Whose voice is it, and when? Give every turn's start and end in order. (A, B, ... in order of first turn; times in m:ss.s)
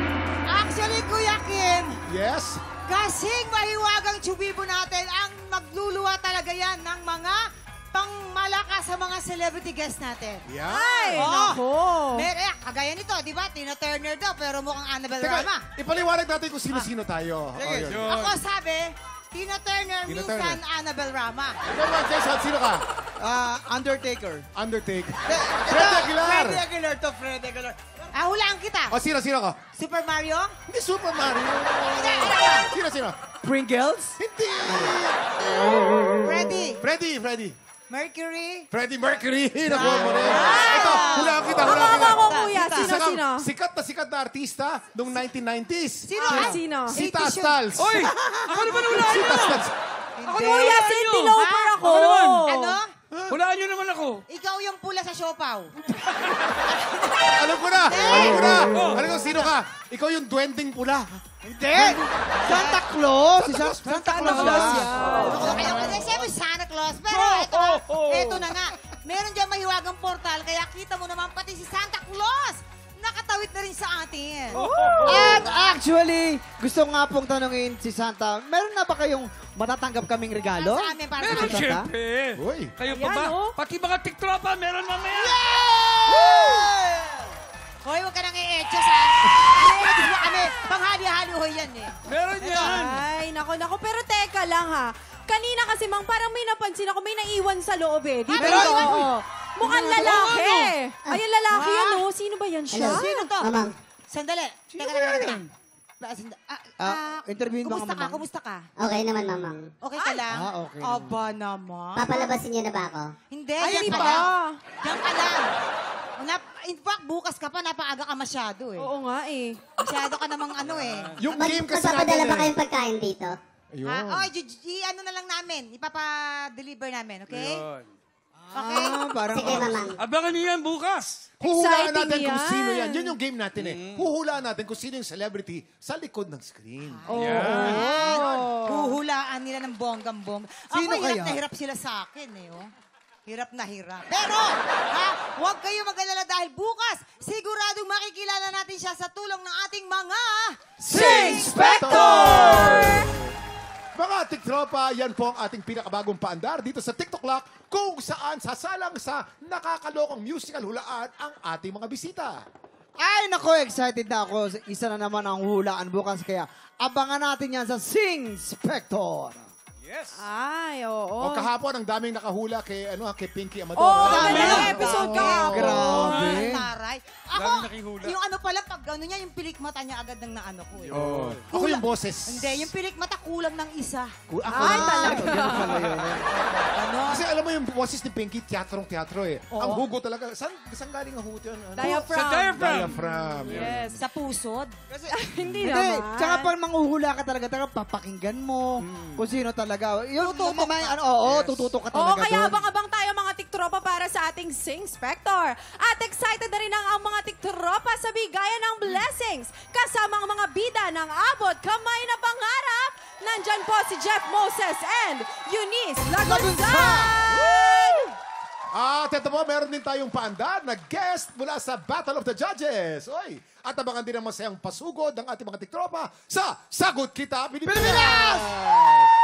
0:00.5-0:02.0 A
0:02.0-0:02.6 B
0:02.8-0:07.4 A
0:07.9-0:10.4 A
0:10.4-0:11.2 B
0:10.6-0:12.3 C
0:11.1-0:15.6 A
0:15.2-0:18.1 B
0:17.6-0:18.0 D
0:17.9-0:18.4 E
0:18.0-0:21.6 A
0:20.0-0:20.6 B
0:21.6-0:22.8 B
0:23.2-0:24.5 D
0:24.5-0:26.6 B
0:25.3-0:27.8 D
0:28.1-0:29.0 A
0:28.9-0:29.6 B
0:29.8-0:30.5 A
0:30.7-0:33.2 B
0:31.9-0:32.7 A
0:33.4-0:34.9 D
0:34.2-0:35.2 B
0:36.2-0:36.8 A
0:36.8-0:37.6 B
0:37.9-0:38.7 A
0:38.7-0:48.1 B
0:39.6-0:43.0 A
0:40.3-0:43.5 C
0:46.1-0:47.6 A
0:46.2-0:47.0 C
0:47.8-0:49.6 E
0:48.9-0:49.7 B
0:50.2-0:51.9 A
0:50.3-0:52.7 C
0:50.3-0:52.5 E
0:52.4-0:52.9 A
0:53.1-0:53.4 B
0:53.3-0:54.2 E
0:54.3-0:58.6 A
0:57.3-1:01.2 B
0:58.7-0:59.3 E
1:01.4-1:04.9 D
1:01.7-1:02.8 A
1:03.4-1:04.1 B
1:03.8-1:05.8 E
1:04.2-1:05.6 C
1:05.2-1:14.6 A
1:07.2-1:08.4 E
1:14.6-1:15.2 E
1:15.0-1:21.9 D
1:20.5-1:21.7 A
1:21.2-1:25.4 E
1:22.4-1:22.7 B
1:22.9-1:23.6 C
1:25.5-1:27.3 D
1:26.2-1:26.5 E
1:27.8-1:32.7 A
1:29.5-1:30.5 C
1:32.1-1:33.0 E
1:32.6-1:43.3 C
1:38.3-1:39.0 A
1:38.3-1:39.1 D
1:39.6-1:40.7 A
1:41.5-1:42.0 A
1:42.7-1:43.7 F
1:42.8-1:48.6 A
1:46.8-1:48.2 D
1:48.8-1:49.7 F
1:49.8-1:52.3 A
1:50.3-1:51.2 D
1:52.0-1:53.1 F
1:53.3-1:54.3 A
1:53.6-1:54.6 C
1:53.8-1:54.3 B
1:54.8-1:55.5 A
1:56.2-1:58.9 A
1:58.8-1:59.7 C
1:59.8-2:01.2 A
2:00.8-2:01.1 E
2:01.2-2:02.5 B
2:01.3-2:03.4 F
2:03.7-2:04.2 B
2:03.8-2:07.6 A
2:07.3-2:07.9 E
2:08.4-2:09.8 D
2:08.5-2:09.7 A
2:09.3-2:10.0 F
2:10.0-2:11.4 E
2:11.4-2:13.2 C
2:11.4-2:17.8 B
2:13.5-2:14.1 E
2:16.8-2:22.7 A
2:17.1-2:18.9 C
2:17.2-2:18.0 E
2:20.7-2:21.4 D
2:23.2-2:30.6 A
2:30.8-2:32.8 B
2:30.9-2:33.1 D
2:30.9-2:33.1 C
2:31.7-2:32.4 A
2:33.9-2:42.4 B
2:43.0-2:49.4 D
2:49.8-2:50.2 E
2:50.1-2:51.5 C
2:51.2-2:55.9 B
2:53.8-2:56.3 C
2:54.0-3:01.0 A
2:54.0-2:56.7 D
2:54.2-2:54.7 E
2:56.0-2:56.4 E
2:57.3-2:58.1 E
3:00.8-3:01.5 E
3:00.9-3:02.7 B
3:01.5-3:05.3 A
3:04.3-3:05.8 B
3:04.5-3:05.9 C
3:04.5-3:06.3 D
3:06.2-3:07.2 A
3:07.1-3:13.7 B
3:09.5-3:09.8 A
3:11.7-3:14.0 C
3:12.1-3:13.0 E
3:13.5-3:13.9 E
3:13.9-3:14.8 A
3:14.9-3:22.6 D
3:15.1-3:16.5 C
3:20.2-3:21.0 A
3:21.9-3:37.3 C
3:36.2-3:38.0 D
3:38.7-3:49.1 B
3:47.6-3:48.6 D